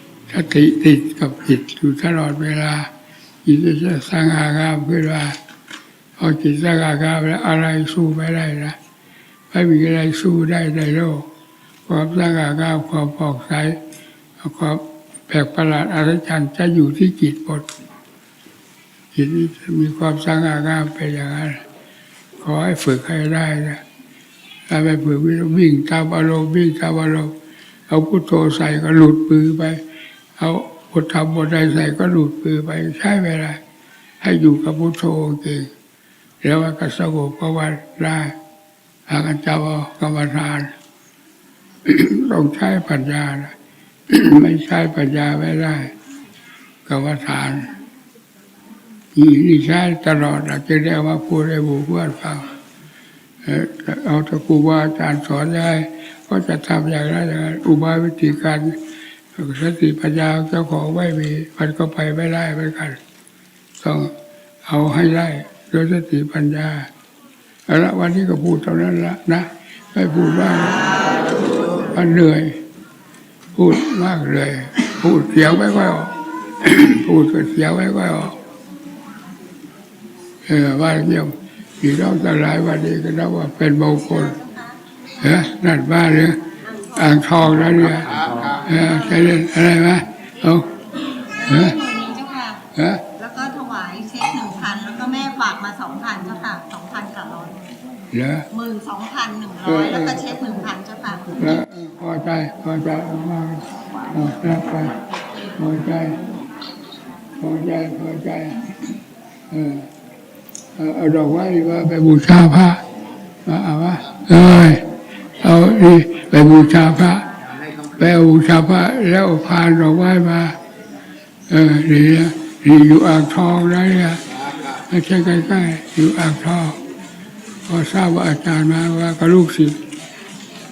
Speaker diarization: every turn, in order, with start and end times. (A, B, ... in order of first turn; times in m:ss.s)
0:00.3-0:02.9 A
0:03.4-0:05.4 A
0:06.2-0:08.8 A
0:09.5-0:11.3 A
0:11.8-0:13.8 A
0:14.4-0:17.7 A
0:19.1-0:21.6 A
0:22.4-0:23.8 A
0:24.7-0:27.3 A
0:27.9-0:29.8 A
0:30.4-0:33.6 A
0:34.2-0:35.7 A
0:36.4-0:38.4 A
0:39.1-0:40.7 A
0:41.8-0:43.5 A
0:44.1-0:46.0 A
0:46.8-0:47.8 A
0:49.1-0:52.5 A
0:53.4-0:58.8 A
0:59.3-1:03.0 A
1:03.8-1:04.1 A
1:04.6-1:06.9 A
1:07.6-1:10.9 A
1:11.8-1:12.6 A
1:13.5-1:18.4 A
1:20.4-1:24.4 A
1:24.4-1:24.8 B
1:25.2-1:30.8 A
1:31.4-1:31.8 A
1:31.4-1:32.6 B
1:32.7-1:33.1 A
1:33.1-1:37.6 B
1:38.1-1:38.5 A
1:38.5-1:41.3 B
1:39.6-1:40.3 A
1:41.3-1:45.0 A
1:45.6-1:46.3 A
1:47.4-1:48.7 A
1:49.5-1:49.9 A
1:50.8-1:52.8 A
1:53.4-1:54.9 A
1:55.4-1:57.3 A
1:57.9-2:00.6 A
2:01.5-2:06.8 A
2:07.6-2:09.8 A